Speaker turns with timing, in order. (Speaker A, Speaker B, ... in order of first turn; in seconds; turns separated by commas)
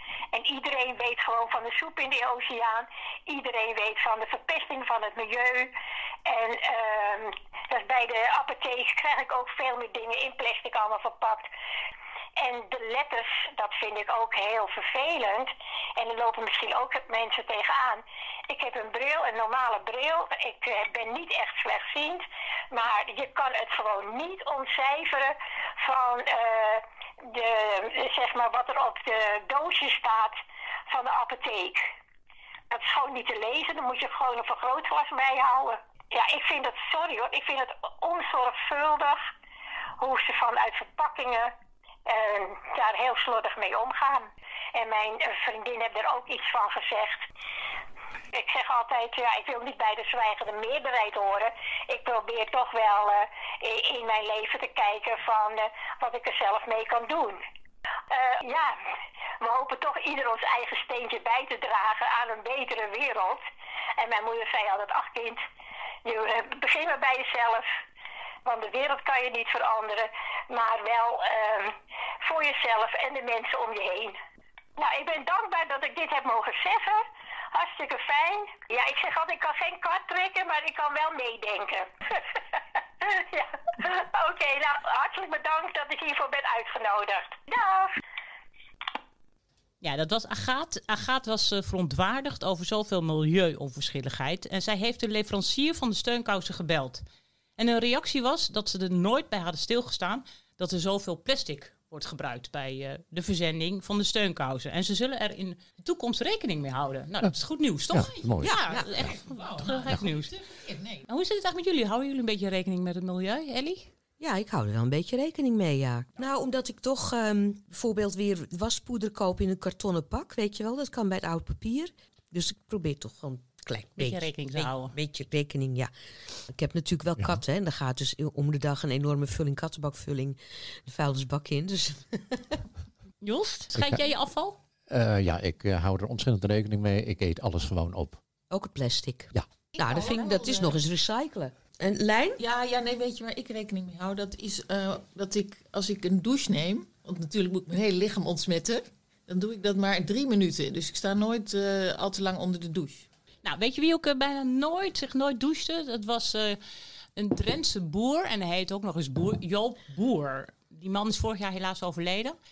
Speaker A: 0.3-5.7, Speaker A: 6.2-11.5, Speaker A: 12.4-30.4, Speaker A: 30.9-31.8, Speaker A: 32.7-39.2, Speaker A: 40.0-41.5, Speaker A: 42.1-47.2, Speaker A: 48.3-57.4, Speaker A: 58.1-58.8, Speaker A: 59.4-63.4, Speaker A: 64.0-65.4, Speaker A: 66.0-67.7, Speaker A: 68.4-74.2, Speaker A: 74.8-87.9, Speaker B: 89.8-97.0, Speaker B: 97.6-110.4, Speaker C: 107.9-109.1, Speaker D: 108.4-108.9, Speaker E: 109.1-110.0, Speaker E: 110.6-111.0, Speaker B: 111.0-113.9, Speaker D: 114.2-125.9, Speaker B: 124.0-124.9, Speaker D: 126.5-132.5, Speaker B: 133.2-134.6, Speaker C: 133.7-134.0, Speaker C: 134.9-138.2, Speaker D: 138.5-142.4, Speaker E: 139.8-140.8, Speaker E: 142.4-153.1, Speaker B: 153.4-156.6, Speaker B: 157.2-162.3